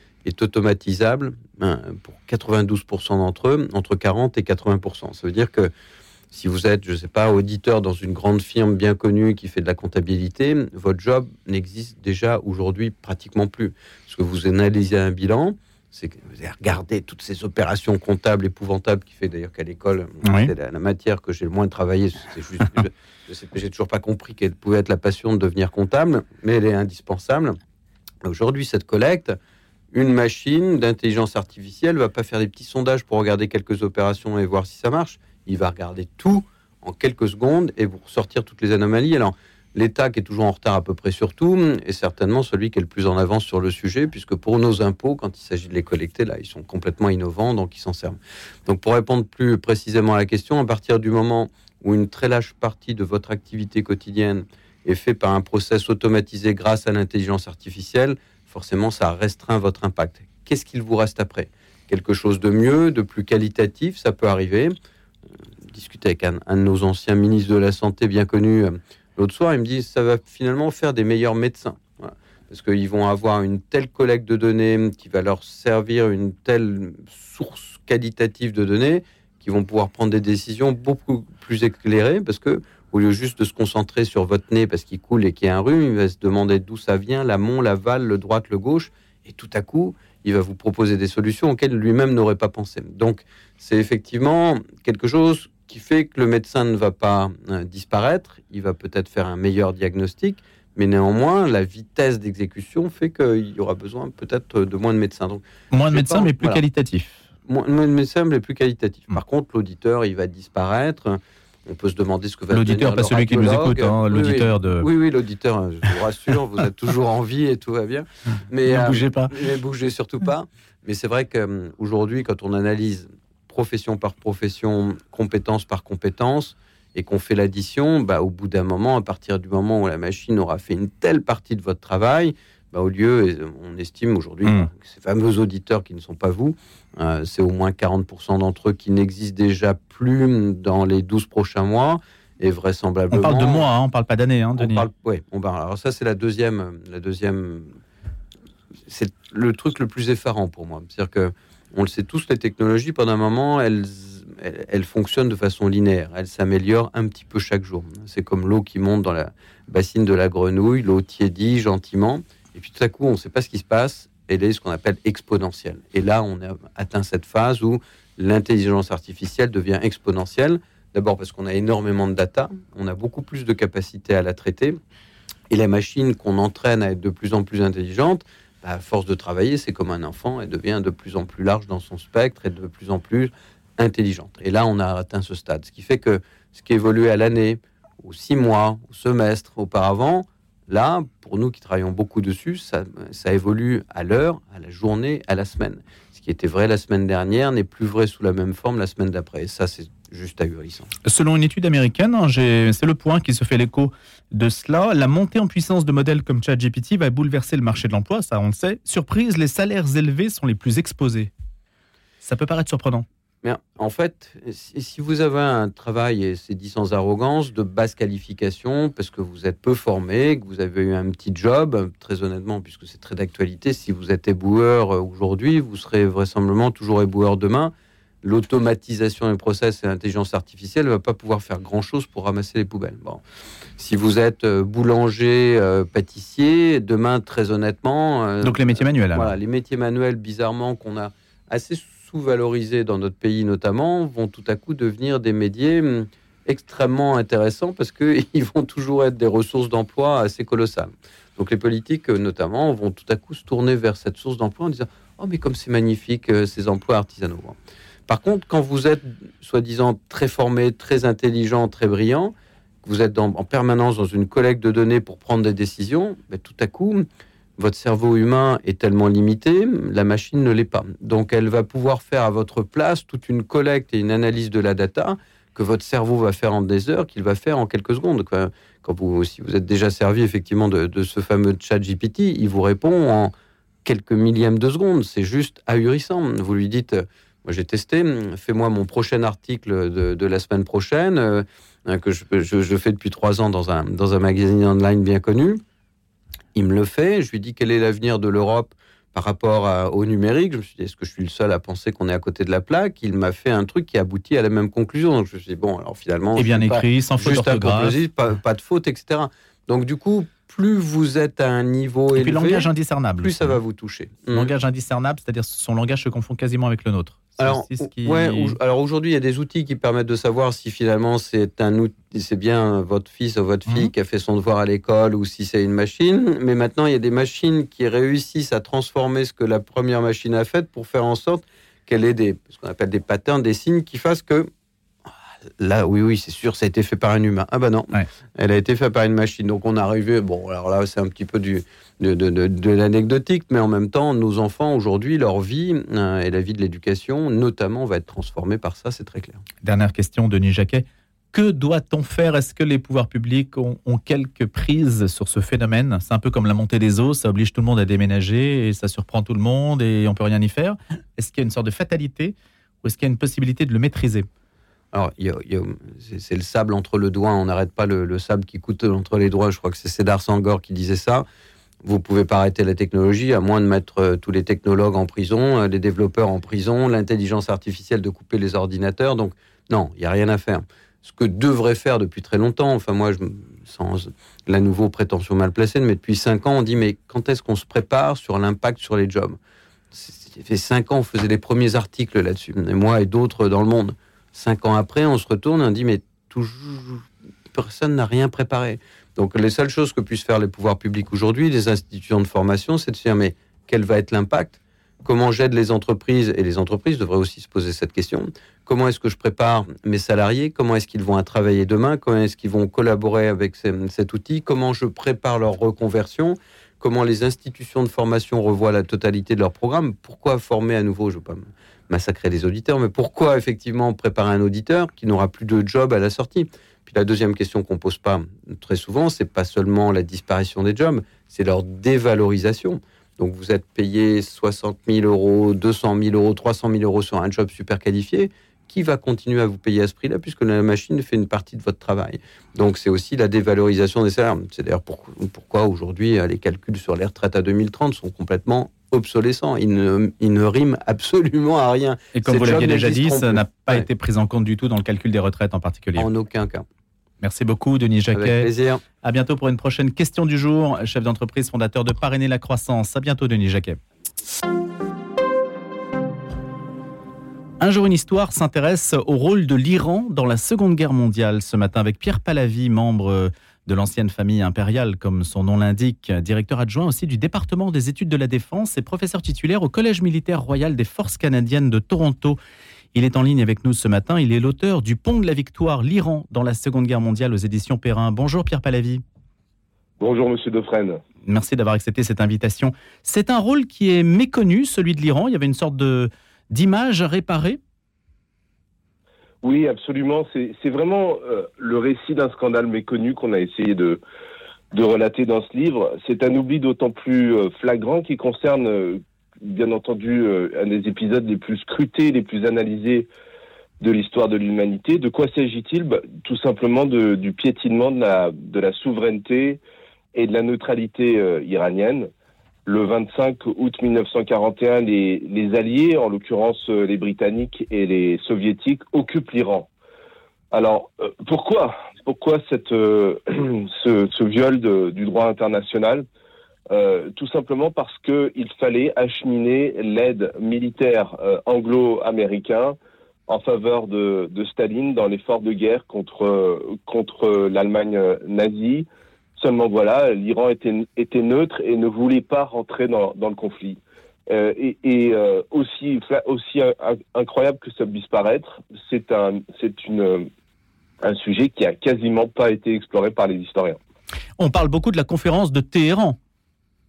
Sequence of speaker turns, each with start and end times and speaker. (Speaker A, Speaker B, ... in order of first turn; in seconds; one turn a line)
Speaker A: 0.2-5.7
Speaker A: 6.3-27.6
Speaker B: 20.2-20.5
Speaker A: 28.2-29.4
Speaker A: 29.9-64.8
Speaker A: 65.7-106.6
Speaker B: 105.7-107.2
Speaker A: 107.5-143.7
Speaker B: 112.5-114.9
Speaker B: 118.7-119.3
Speaker B: 143.1-144.8
Speaker A: 144.6-147.7
Speaker A: 148.9-174.8
Speaker A: 175.5-200.9
Speaker B: 201.1-211.3
Speaker B: 212.2-213.1
Speaker A: 213.4-233.2
Speaker A: 233.8-257.6
Speaker B: 238.4-239.3
Speaker A: 258.1-262.3
Speaker A: 262.8-267.1
Speaker A: 267.6-283.3
Speaker A: 283.9-295.6
Speaker A: 296.6-314.5
Speaker B: 306.4-308.0
Speaker B: 312.2-313.6
Speaker B: 314.3-318.6
Speaker A: 317.4-334.5
Speaker A: 335.6-349.4
Speaker B: 349.6-364.3
Speaker A: 364.9-371.2
Speaker A: 371.8-389.4
Speaker A: 389.9-453.9
Speaker B: 452.1-456.1
Speaker A: 456.0-456.7
Speaker B: 457.2-458.5
Speaker A: 458.1-458.8
Speaker B: 459.0-463.8
Speaker B: 467.6-482.4
Speaker B: 482.9-489.0
Speaker C: 490.0-491.0
Speaker B: 491.2-497.6
Speaker C: 499.4-504.0
Speaker C: 504.7-513.1
Speaker C: 513.8-519.6
Speaker C: 520.1-522.1
Speaker C: 522.7-529.7
Speaker C: 530.5-536.0
Speaker C: 536.7-542.8
Speaker C: 543.3-548.9
Speaker C: 549.4-560.3
Speaker C: 561.0-563.8
Speaker B: 564.4-566.2